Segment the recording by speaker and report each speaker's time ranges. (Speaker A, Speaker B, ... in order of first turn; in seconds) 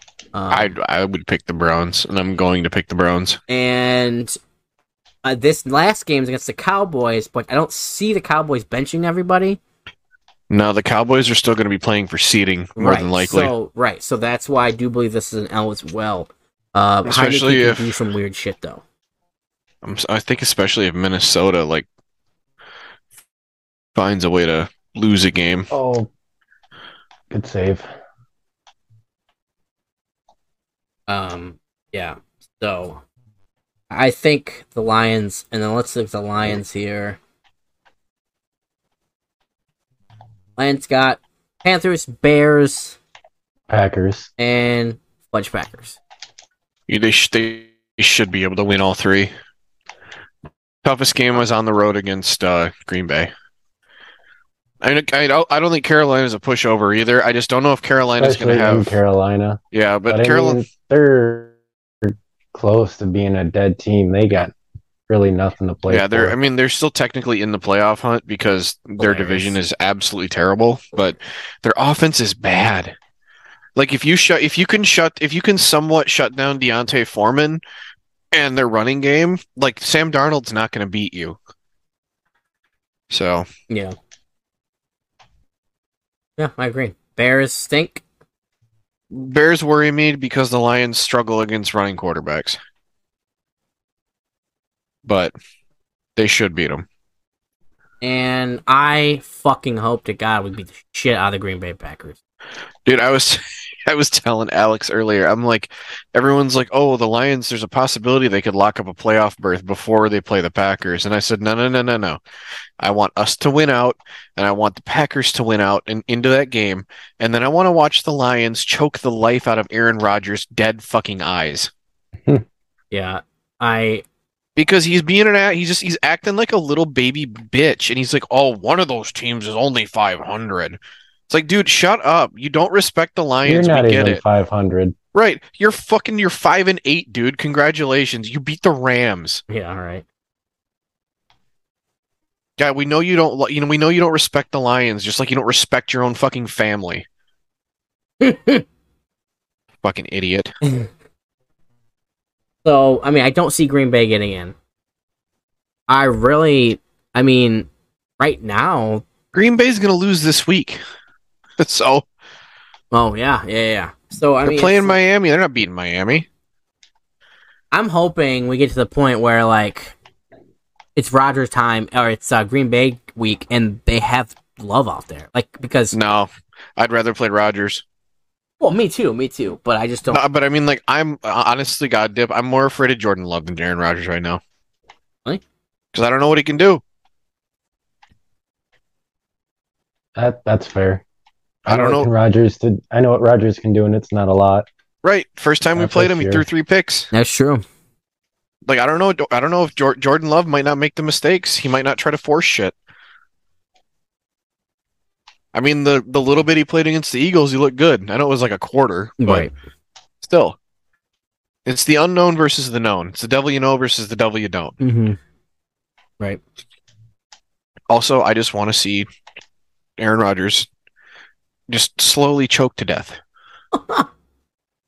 Speaker A: 0.3-0.7, 3.5-4.4, 5.2-9.6, 12.8-18.8, 31.1-33.0, 33.9-37.2, 40.6-43.0, 44.4-46.0, 69.0-69.5, 83.7-84.0, 86.4-88.0, 98.0-102.2, 122.9-124.0, 139.5-140.0, 148.2-148.6, 152.6-154.5, 155.9-159.0, 162.9-165.0, 167.7-169.9, 170.9-175.9, 178.6-180.2, 197.1-197.6, 209.2-209.5, 214.8-215.2, 223.7-224.1
Speaker B: 0.5-3.4, 10.5-13.5, 17.1-18.0, 19.8-21.9, 23.9-25.7, 46.9-49.3, 50.8-53.3, 54.8-59.0, 59.7-60.6, 65.9-72.9, 73.8-77.6, 78.3-81.3, 83.1-83.5, 89.1-92.6, 95.0-95.3, 96.2-96.8, 102.8-112.2, 112.8-121.7, 124.5-134.2, 135.1-139.4, 142.6-147.1, 149.8-150.5, 159.3-160.8, 161.6-162.0, 164.4-166.2, 175.9-177.8, 180.1-184.4, 185.9-186.8, 191.7-192.1, 195.0-197.1, 198.7-202.7, 205.5-209.5, 210.2-210.6, 211.7-214.8, 217.9-219.1, 220.0-220.7, 221.7-223.2
Speaker C: 25.7-26.1, 27.3-27.9, 43.7-44.3, 58.2-64.5, 65.1-66.3, 133.4-134.9, 190.2-191.0, 191.7-194.7, 195.8-196.4